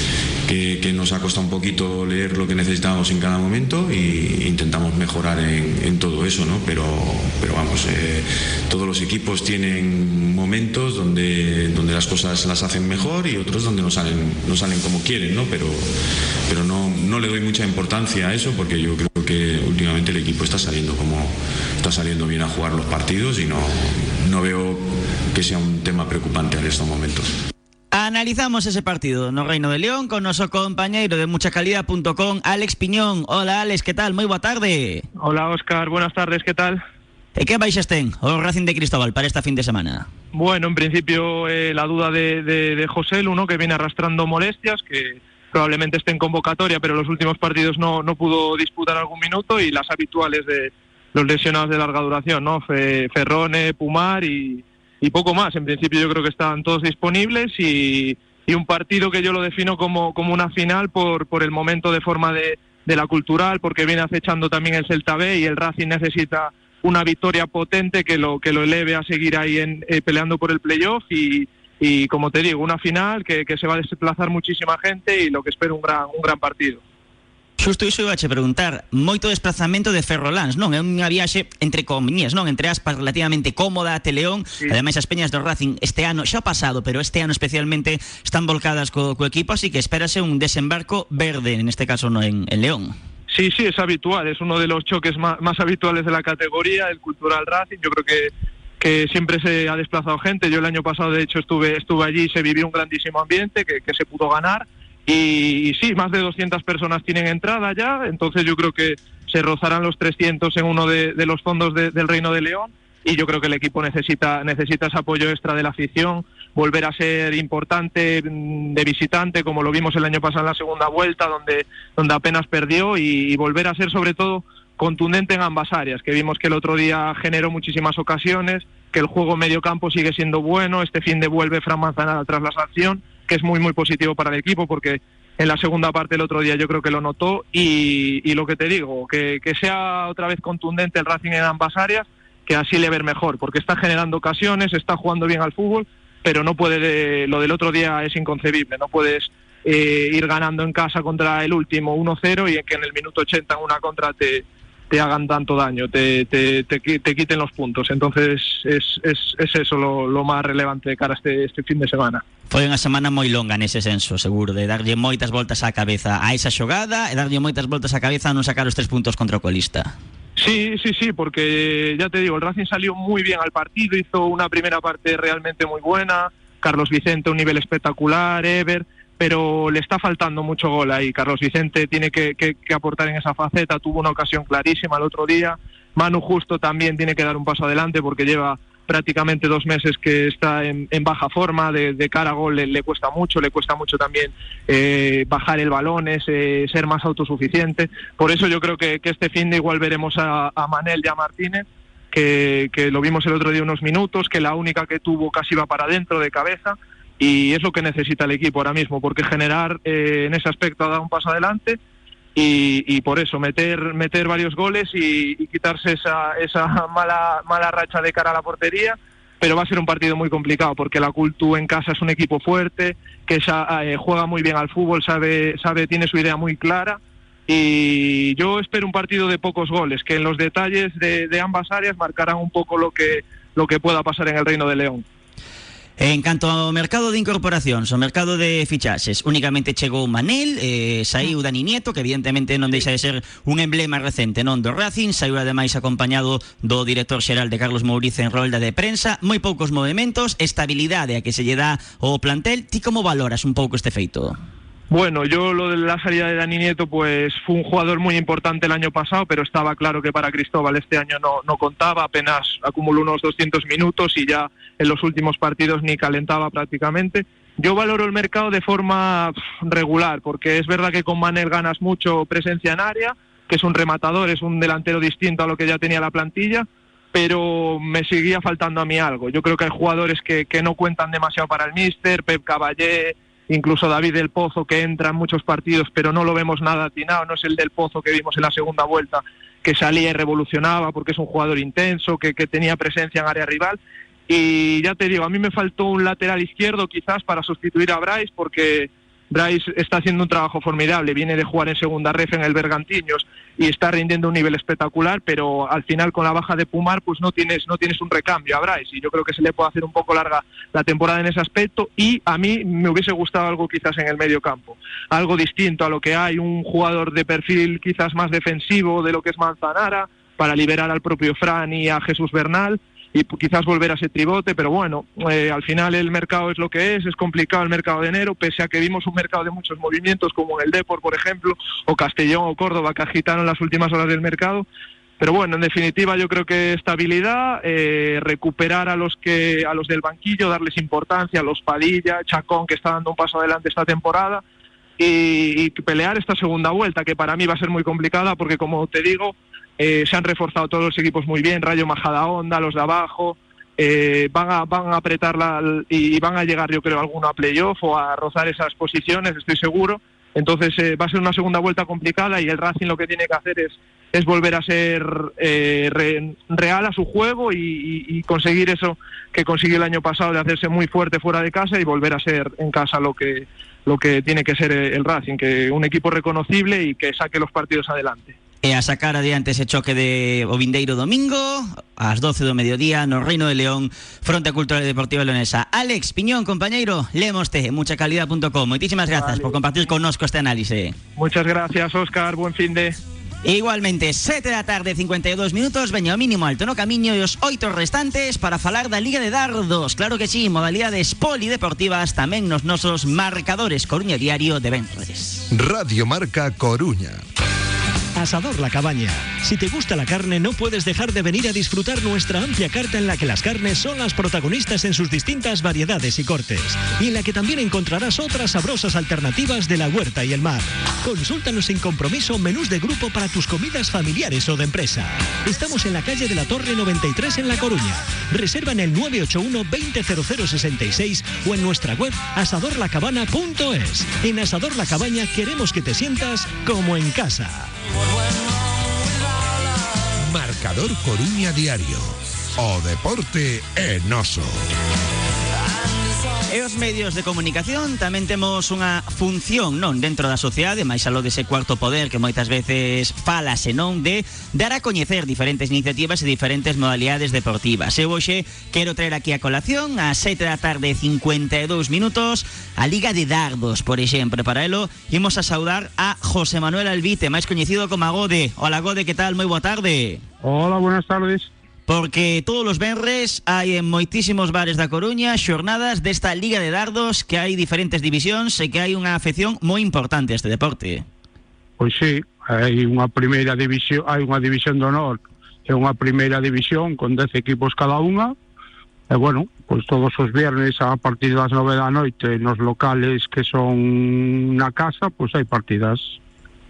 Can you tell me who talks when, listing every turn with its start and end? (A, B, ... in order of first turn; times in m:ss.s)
0:00.4-0:15.9 A
0:16.5-0:27.3 A
0:27.9-0:35.0 B
0:35.2-0:36.8 C
0:37.4-0:40.1 B
0:40.3-1:16.8 C
1:17.6-1:32.9 B
1:33.3-2:42.2 C
2:42.5-2:49.9 B
2:50.4-3:31.8 C
3:32.3-3:55.0 C
3:56.0-4:14.4 B
4:14.9-4:53.8 C
4:54.3-5:34.6 C
5:35.2-5:44.4 C
5:45.0-6:18.3 C
6:18.6-6:31.0 B
6:29.1-6:29.5 C
6:31.2-6:33.0 C
6:33.4-6:45.4 B
6:45.5-6:47.2 D
6:48.2-7:17.7 E
7:20.3-7:24.6 D
7:26.5-7:50.2 B
7:50.4-7:51.5 F
7:51.9-8:01.0 B
8:01.8-8:08.3 F
8:09.1-8:16.2 F